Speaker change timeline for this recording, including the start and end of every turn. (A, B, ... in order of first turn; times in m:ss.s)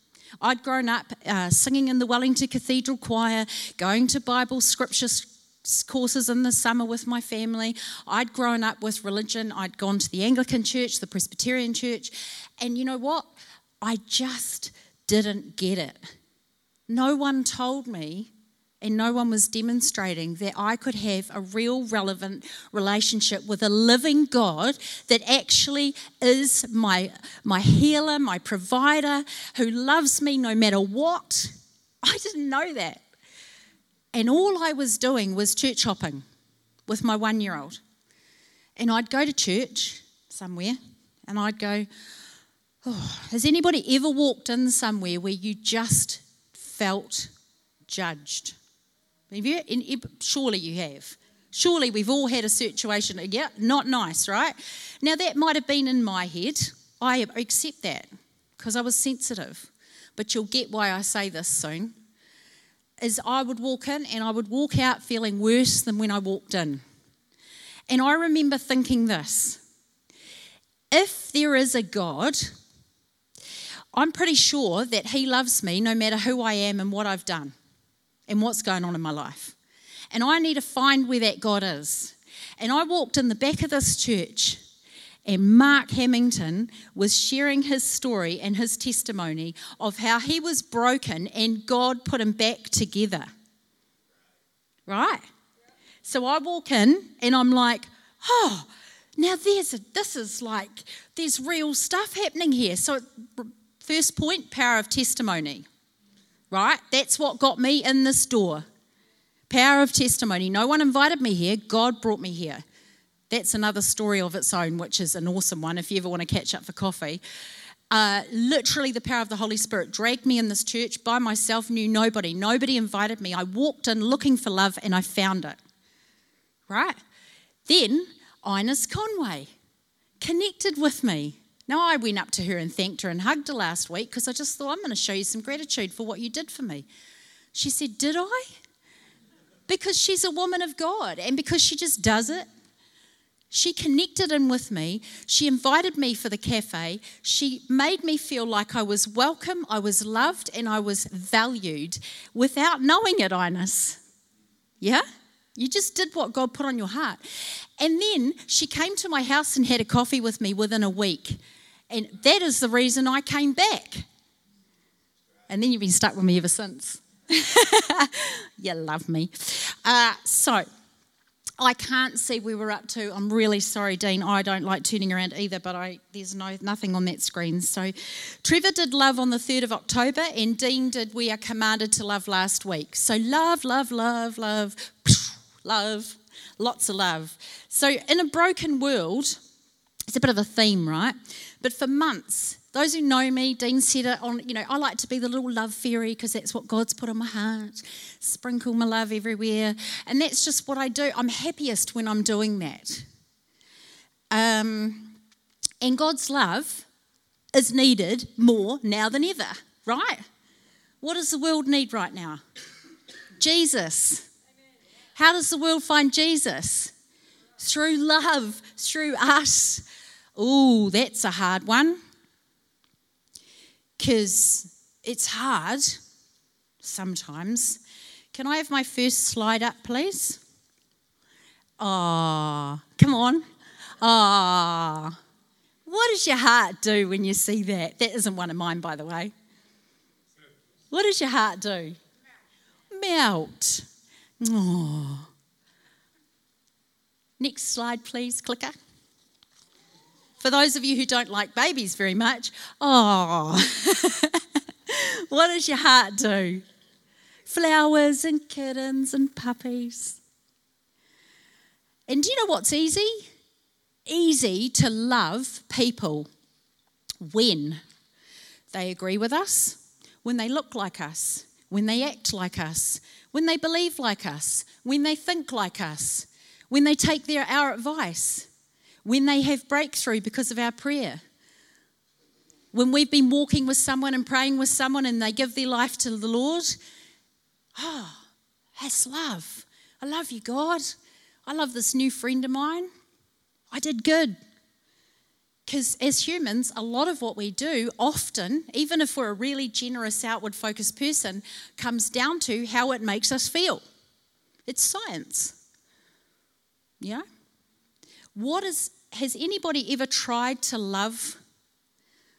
0:00.4-0:13.3 A
0:13.8-0:16.0 A
0:16.9-0:18.3 A
0:18.8-0:33.0 A
0:34.1-0:36.2 A
0:36.9-0:37.8 A
0:38.8-0:41.9 A
0:42.8-0:47.3 A
0:47.9-0:48.6 A
0:49.3-0:58.1 A
0:58.6-1:01.9 A
1:03.0-1:06.8 A
1:07.9-1:09.6 A
1:10.9-1:12.5 A
1:13.9-1:17.5 A
1:18.3-1:19.5 A
1:20.1-1:24.6 A
1:25.2-1:33.3 A
1:34.9-1:35.2 A
1:36.0-1:45.6 A
1:46.5-1:48.6 A
1:49.5-1:52.6 A
1:53.3-1:57.2 A
1:57.9-2:05.6 A
2:06.7-2:07.0 A
2:07.6-2:09.5 A
2:10.2-2:16.9 A
2:17.5-2:18.5 A
2:19.7-2:22.4 A
2:23.5-2:34.0 A
2:35.6-2:37.2 A
2:37.8-2:44.1 A
2:45.5-2:50.6 A
2:51.6-3:09.4 A
3:10.1-3:23.1 A
3:24.3-3:25.1 A
3:25.8-3:26.8 A
3:27.5-3:30.2 A
3:31.0-3:32.4 A
3:33.4-3:34.3 A
3:35.2-3:36.9 A
3:37.6-3:39.8 A
3:40.4-3:42.0 A
3:44.0-3:46.0 A
3:46.8-3:47.8 A
3:48.3-3:50.4 A
3:51.8-3:53.4 A
3:54.0-3:55.2 A
3:55.9-3:59.3 A
4:00.9-4:02.0 A
4:02.9-4:03.9 A
4:04.4-4:05.3 A
4:07.4-4:08.8 A
4:10.4-4:16.6 A
4:17.5-4:20.2 A
4:22.1-4:23.3 A
4:24.1-4:26.3 A
4:27.2-4:27.8 A
4:28.7-4:38.5 A
4:39.0-4:41.2 A
4:42.7-4:46.8 A
4:47.8-4:48.2 A
4:48.8-4:50.9 A
4:51.4-4:52.9 A
4:53.7-4:54.4 A
4:55.6-5:03.8 A
5:04.7-5:05.6 A
5:08.4-5:11.4 A